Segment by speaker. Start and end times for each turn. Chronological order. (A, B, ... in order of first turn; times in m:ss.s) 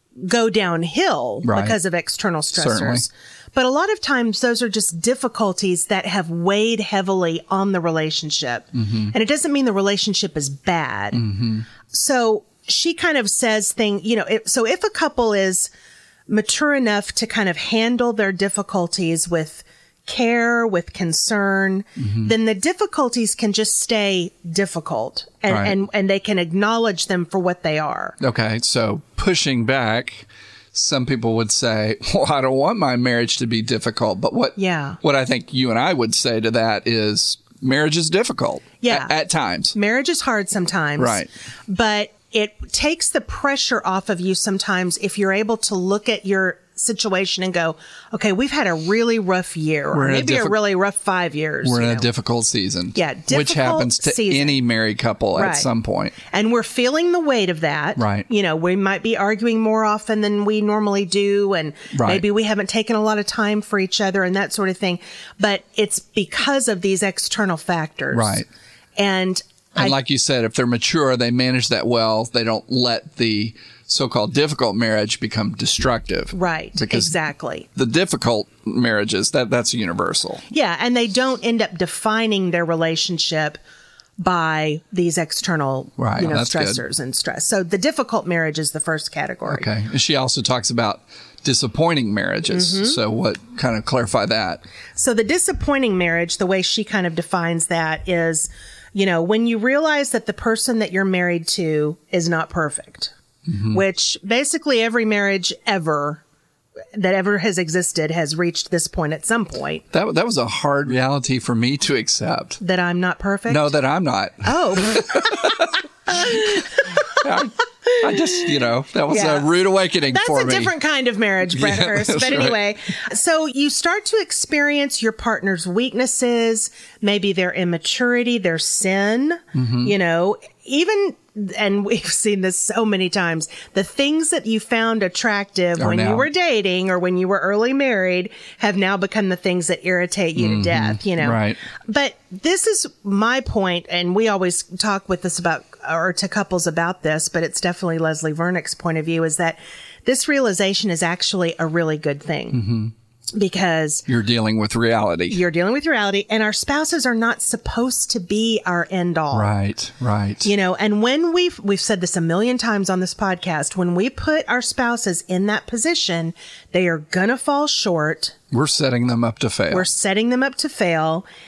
0:00.2-0:11.3 A
0:01.4-0:01.8 B
0:02.5-0:03.0 B
0:08.8-0:09.1 B
0:11.1-0:11.6 B
0:11.9-0:15.7 A
0:16.3-0:28.2 A
0:22.0-0:22.3 B
0:25.5-0:25.8 B
0:28.2-0:39.7 B
0:34.6-0:35.0 A
0:38.8-0:39.1 A
0:39.7-0:52.1 A
0:41.0-0:41.3 B
0:49.9-0:50.6 B
0:51.6-0:56.1 B
0:52.9-0:54.6 A
0:55.3-0:55.7 A
0:56.3-1:08.4 A
0:58.0-0:58.3 B
1:01.9-1:02.2 B
1:08.1-1:08.5 B
1:09.0-1:10.0 A
1:09.8-1:17.2 B
1:16.3-1:17.7 A
1:17.7-1:20.4 B
1:20.5-1:23.6 A
1:24.2-1:29.7 A
1:26.0-1:26.8 B
1:29.5-1:34.6 B
1:32.5-1:33.0 A
1:35.0-1:43.1 A
1:43.5-1:43.8 B
1:43.6-1:46.2 A
1:46.9-1:49.8 A
1:49.9-1:52.6 B
1:52.6-1:53.7 A
1:53.5-2:00.7 B
1:54.4-1:57.2 A
1:57.9-1:58.5 A
1:59.1-1:59.5 A
2:00.1-2:32.6 A
2:01.5-2:02.6 B
2:09.5-2:09.9 B
2:15.8-2:16.3 B
2:20.4-2:21.6 B
2:32.5-2:32.9 B
2:33.3-2:34.0 A
2:34.1-2:35.4 B
2:35.3-2:39.5 A
2:39.3-2:40.5 B
2:40.4-2:48.3 A
2:48.5-2:49.9 B
2:49.7-2:51.3 A